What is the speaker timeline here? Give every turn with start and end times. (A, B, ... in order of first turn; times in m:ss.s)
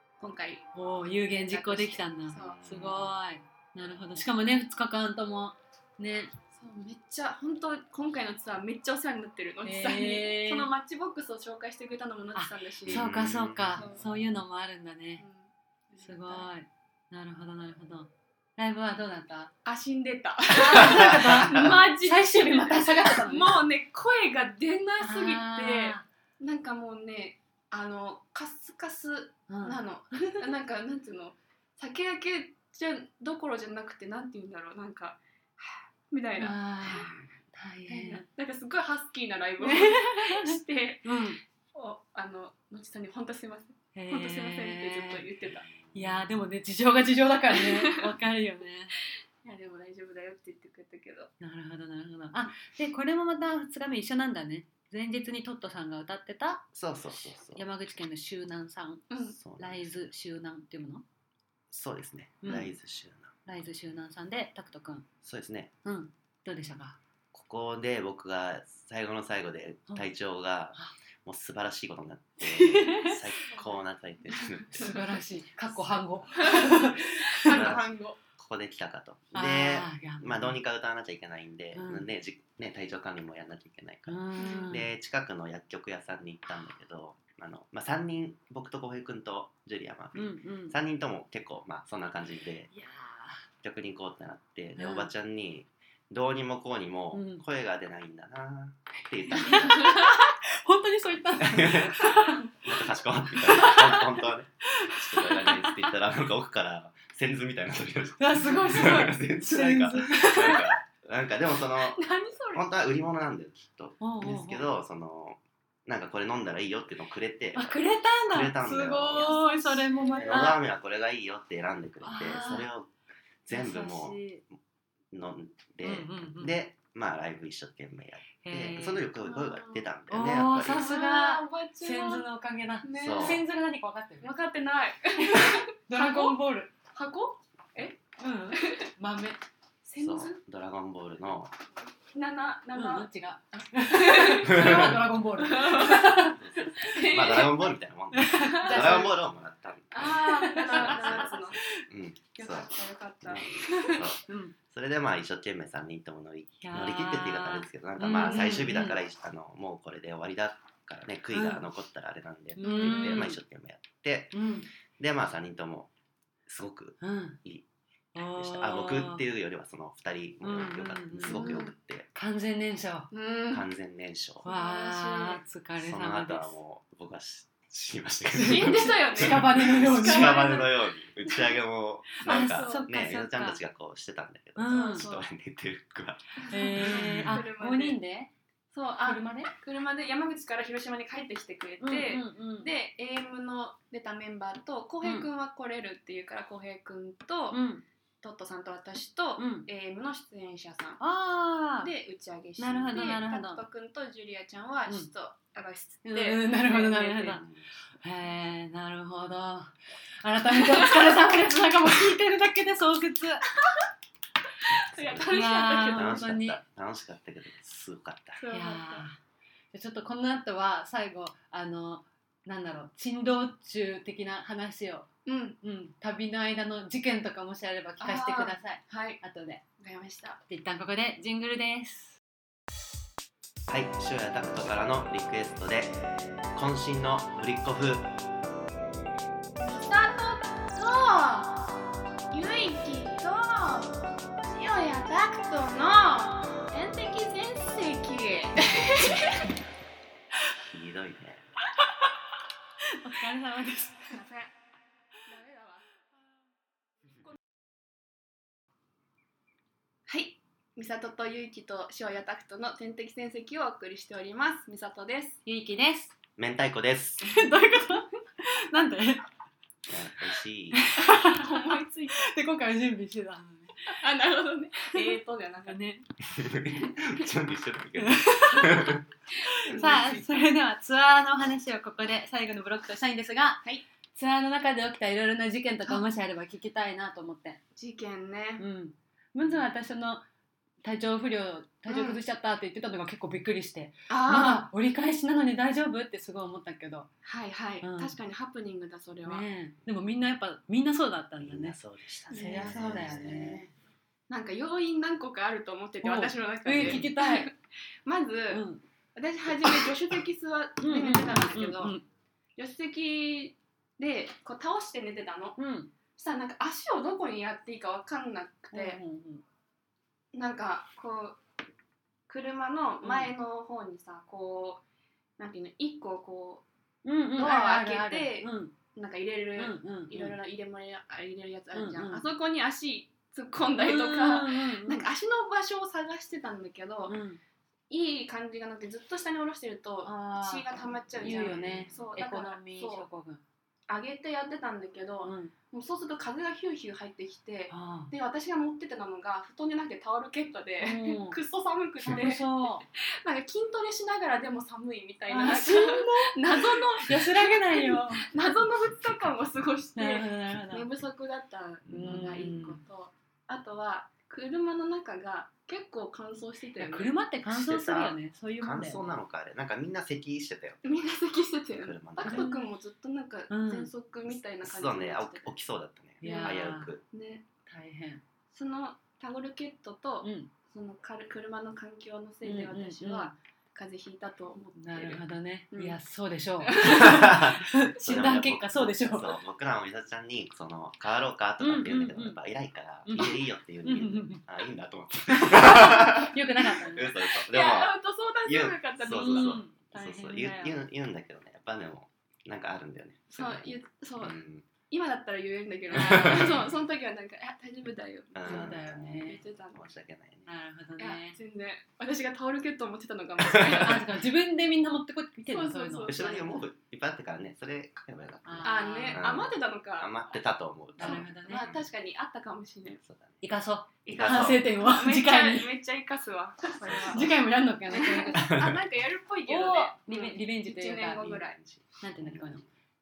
0:00.2-0:02.6 A
0:00.8-0:06.3 B
0:02.4-0:03.2 C
0:06.5-0:13.1 A
0:09.6-0:10.7 B
0:12.4-0:15.2 B
0:12.8-0:14.2 C
0:13.7-0:14.0 A
0:15.2-0:16.5 A
0:16.0-0:19.5 B
0:19.6-0:37.2 A
0:20.5-0:23.6 B
0:25.0-0:26.0 B
0:29.5-0:30.4 B
0:36.4-0:38.2 B
0:37.9-0:41.2 A
0:39.6-0:41.4 B
0:41.7-0:45.7 A
0:44.0-0:45.2 B
0:45.7-0:46.3 C
0:45.9-0:48.9 B
0:47.5-0:48.1 A
0:49.4-0:51.3 A
0:51.4-1:01.0 B
0:56.8-0:57.6 C
0:59.1-0:59.4 A
0:59.4-0:59.9 C
1:01.7-1:03.3 C
1:02.4-1:02.7 B
1:03.5-1:05.1 B
1:05.2-1:05.7 C
1:05.8-1:07.0 B
1:07.3-1:15.0 C
1:12.4-1:13.2 B
1:13.5-1:13.8 A
1:14.7-1:15.0 A
1:14.8-1:17.8 B
1:16.4-1:18.2 A
1:17.4-1:32.7 C
1:19.3-1:20.6 B
1:21.7-1:22.1 B
1:24.1-1:24.9 B
1:24.4-1:24.8 A
1:30.2-1:30.7 B
1:32.7-1:33.4 B
1:33.6-1:40.0 C
1:34.8-1:35.1 B
1:37.1-1:37.4 B
1:39.3-1:42.5 B
1:39.5-1:40.2 A
1:41.4-1:59.3 C
1:42.1-1:42.4 A
1:43.4-1:44.1 B
1:44.8-1:45.9 B
1:48.2-1:50.7 B
1:51.9-1:52.6 A
1:54.0-1:54.7 B
1:57.6-2:00.6 B
1:59.2-2:00.6 A
2:00.2-2:02.9 C
2:02.0-2:02.7 B
2:03.4-2:04.4 C
2:03.5-2:04.4 B
2:05.1-2:10.8 C
2:05.8-2:06.6 B
2:08.4-2:09.1 B
2:09.2-2:09.9 A
2:10.1-2:14.3 B
2:10.7-2:12.3 A
2:12.8-2:13.4 A
2:13.0-2:13.4 C
2:14.2-2:16.4 A
2:15.3-2:16.7 B
2:16.9-2:18.0 A
2:18.2-2:19.4 B
2:18.5-2:18.9 A
2:19.8-2:20.4 A
2:20.0-2:21.5 C
2:22.1-2:27.7 A
2:22.8-2:26.4 B
2:24.5-2:25.0 C
2:26.3-2:32.7 C
2:28.1-2:29.2 B
2:28.4-2:29.1 A
2:29.9-2:31.6 A
2:30.2-2:31.4 B
2:32.4-2:34.0 A
2:33.2-2:44.4 C
2:34.3-2:34.6 B
2:36.6-2:39.0 B
2:38.2-2:38.6 A
2:41.3-2:41.6 B
2:42.6-2:43.4 B
2:42.6-2:43.3 A
2:44.3-2:44.7 B
2:45.0-2:45.9 C
2:46.5-2:47.6 C
2:47.0-2:47.4 B
2:48.1-2:49.2 B
2:48.4-2:52.1 C
2:50.4-2:53.1 B
2:51.3-2:51.7 A
2:53.1-2:53.7 A
2:53.5-2:54.4 C
2:54.4-2:55.4 A
2:54.4-2:56.6 B
2:55.8-3:07.4 C
2:58.4-3:01.5 A
2:58.4-3:00.7 B
3:02.2-3:02.9 A
3:02.2-3:03.6 B
3:04.6-3:05.1 B
3:04.7-3:05.3 A
3:06.4-3:08.0 A
3:06.5-3:08.3 B
3:08.7-3:17.6 A
3:09.0-3:09.5 B
3:11.8-3:12.7 B
3:15.0-3:15.3 B
3:17.5-3:17.8 B
3:18.2-3:21.0 A
3:19.4-3:19.7 B
3:21.0-3:21.9 B
3:21.8-3:27.4 A
3:22.6-3:23.6 B
3:26.0-3:27.4 B
3:27.3-3:27.7 C
3:28.0-3:33.5 B
3:30.6-3:31.1 A
3:34.7-3:36.3 A
3:34.9-3:38.4 C
3:35.2-3:36.6 B
3:38.4-3:39.1 A
3:38.5-3:39.2 B
3:39.7-3:45.1 B
3:45.3-3:45.6 A
3:45.6-3:49.6 B
3:48.0-3:49.2 A
3:49.8-3:50.4 A
3:50.5-3:52.2 B
3:53.7-3:58.1 C
3:59.6-4:01.7 A
4:02.3-4:09.5 A
4:10.6-4:11.5 C
4:13.0-4:14.2 B
4:14.1-4:14.5 A
4:15.2-4:15.9 A
4:20.1-4:25.4 A
4:25.5-4:26.1 B
4:26.4-4:27.3 C
4:27.2-4:29.2 B
4:27.4-4:28.0 A
4:29.9-4:30.9 C
4:30.7-4:31.6 B
4:31.0-4:32.3 A
4:32.2-4:33.9 B
4:33.9-4:35.8 A
4:35.7-4:36.0 B
4:36.3-4:39.0 C
4:38.0-4:43.6 B
4:39.3-4:40.3 A
4:44.2-4:47.6 B
4:47.8-4:48.6 A
4:48.6-4:50.2 B
4:50.8-4:57.1 B
4:51.9-4:52.2 A
4:54.1-4:54.7 A
4:57.2-4:59.5 A
4:57.8-4:58.1 B
4:59.3-5:03.7 B
5:01.4-5:03.7 C
5:02.3-5:03.6 A
5:04.3-5:08.6 A
5:06.0-5:07.5 B
5:06.8-5:07.1 C
5:08.5-5:08.8 B
5:09.2-5:12.0 A
5:10.8-5:12.0 B
5:12.6-5:15.6 A
5:15.6-5:15.9 B
5:16.2-5:19.0 A
5:18.7-5:19.4 B
5:20.3-5:21.4 A
5:22.3-5:24.8 A
5:23.0-5:23.3 B
5:25.4-5:26.7 A
5:27.0-5:28.8 B
5:27.4-5:37.2 A
5:29.6-5:30.3 B
5:31.7-5:32.2 B
5:33.8-5:35.0 B
5:37.1-5:37.4 B
5:37.9-5:43.1 A
5:40.0-5:40.7 B
5:41.1-5:42.1 C
5:41.2-5:43.4 B
5:43.9-6:07.1 A
5:45.2-5:45.5 B
5:47.7-5:48.1 B
5:50.8-5:51.4 B
5:52.0-5:52.8 B
5:55.3-5:58.4 B
6:00.0-6:00.9 B
6:01.9-6:02.8 B
6:06.8-6:09.2 B
6:07.5-6:10.8 C
6:10.8-6:15.6 A
6:11.8-6:12.5 C
6:12.2-6:12.6 B
6:13.5-6:13.9 B
6:14.6-6:17.0 C
6:16.2-6:17.5 A
6:16.2-6:16.9 B
6:17.7-6:18.2 B
6:18.5-6:24.7 A
6:20.2-6:20.5 B
6:22.4-6:23.3 B
6:24.6-6:29.4 B
6:25.7-6:26.0 A
6:26.6-6:27.4 A
6:26.8-6:44.7 C
6:31.6-6:32.4 B
6:33.1-6:34.4 B
6:35.3-6:37.2 B
6:37.5-6:39.6 A
6:39.0-6:40.8 B
6:43.3-6:49.8 A
6:45.9-6:46.6 C
6:46.0-6:46.7 B
6:48.3-6:50.5 C
6:48.4-6:49.4 B
6:50.5-6:51.4 B
6:51.0-6:54.1 A
6:53.5-6:54.0 C
6:53.8-6:56.5 B
6:55.5-6:56.6 A
6:56.1-7:01.8 C
6:58.4-6:59.2 B
6:58.6-7:00.3 A
7:01.0-7:01.7 B
7:01.0-7:03.0 A
7:03.0-7:03.4 C
7:03.4-7:05.7 B
7:04.0-7:07.3 A
7:04.1-7:04.6 C
7:06.8-7:07.4 C
7:07.1-7:08.5 B
7:07.9-7:11.6 A
7:08.4-7:08.8 C
7:09.5-7:11.3 B
7:11.2-7:12.6 C
7:12.0-7:12.6 B